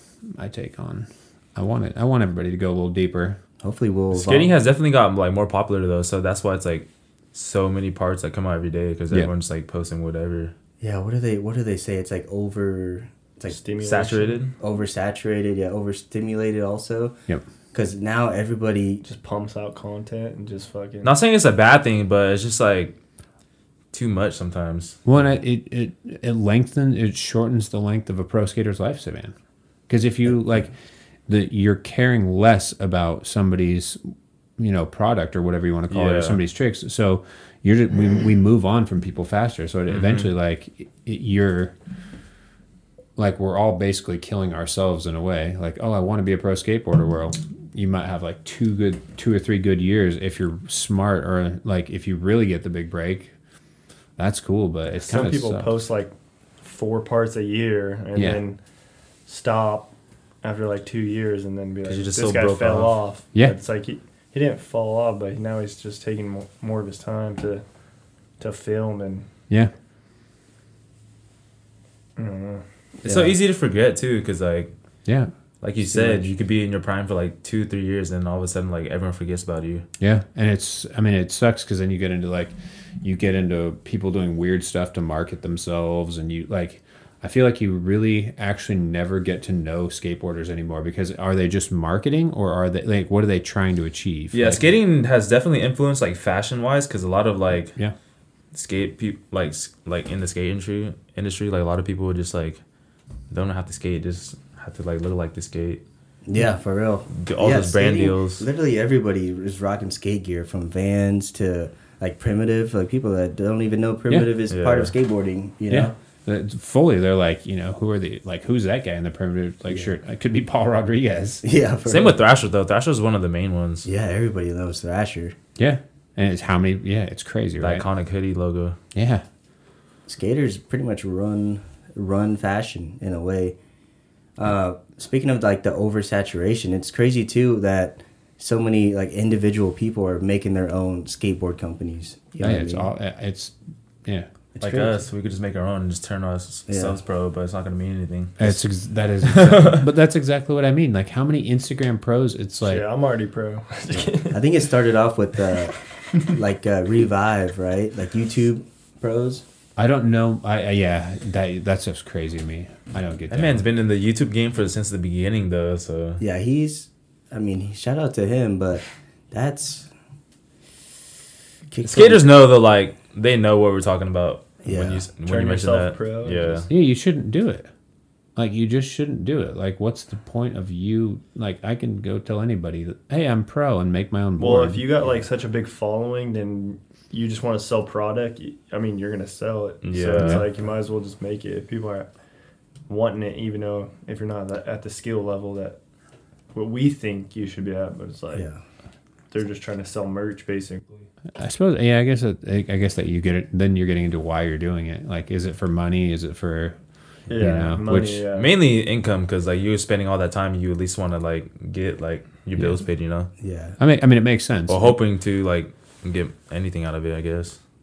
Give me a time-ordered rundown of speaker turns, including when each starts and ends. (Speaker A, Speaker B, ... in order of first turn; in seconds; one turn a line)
Speaker A: 0.2-3.4
Speaker B: 3.6-4.5
Speaker C: 4.1-10.5
Speaker B: 10.8-13.6
Speaker D: 13.5-14.4
Speaker C: 13.8-14.5
Speaker B: 14.6-17.2
Speaker B: 17.7-19.0
Speaker D: 19.0-21.1
Speaker C: 21.0-23.0
Speaker C: 23.9-25.0
Speaker A: 25.1-29.3
Speaker A: 29.9-30.7
Speaker A: 31.3-34.0
Speaker A: 34.6-41.7
Speaker C: 35.9-36.4
Speaker C: 39.9-40.3
Speaker A: 43.2-53.3
Speaker A: 54.2-55.7
Speaker D: 55.0-58.6
Speaker A: 58.1-58.4
Speaker D: 59.3-67.6
Speaker C: 61.9-63.0
Speaker D: 68.4-69.3
Speaker D: 72.2-72.6
Speaker B: 73.0-73.4
Speaker C: 73.0-74.7
Speaker A: 75.1-75.3
Speaker C: 75.6-79.8
Speaker B: 75.8-76.3
Speaker A: 80.0-94.7
Speaker C: 94.3-97.8
Speaker C: 98.5-102.6
Speaker C: 103.3-105.8
Speaker B: 106.3-115.9
Speaker C: 107.1-108.4
Speaker C: 114.5-114.9
Speaker A: 115.7-121.4
Speaker B: 121.4-122.2
Speaker C: 121.9-123.9
Speaker B: 123.8-125.3
Speaker A: 125.6-127.9
Speaker C: 127.6-128.8
Speaker A: 128.9-129.2
Speaker B: 130.1-133.6
Speaker B: 134.4-142.9
Speaker A: 142.4-143.5
Speaker B: 144.6-145.0
Speaker C: 144.6-148.6
Speaker B: 146.7-147.0
Speaker A: 148.4-152.8
Speaker C: 149.2-149.8
Speaker D: 152.6-154.4
Speaker B: 153.9-159.4
Speaker A: 159.8-163.6
Speaker C: 163.3-166.2
Speaker B: 166.2-169.9
Speaker B: 171.7-172.3
Speaker C: 171.8-176.7
Speaker B: 174.6-175.0
Speaker D: 175.3-176.7
Speaker A: 176.7-177.7
Speaker A: 178.4-184.8
Speaker D: 184.4-192.1
Speaker C: 189.8-190.5
Speaker D: 192.9-195.8
Speaker D: 196.5-198.5
Speaker B: 198.3-198.6
Speaker D: 199.3-200.9
Speaker A: 201.4-206.8
Speaker D: 207.3-208.5
Speaker A: 207.3-208.2
Speaker C: 208.3-213.3
Speaker B: 213.4-213.8
Speaker A: 213.8-214.9
Speaker C: 214.7-217.6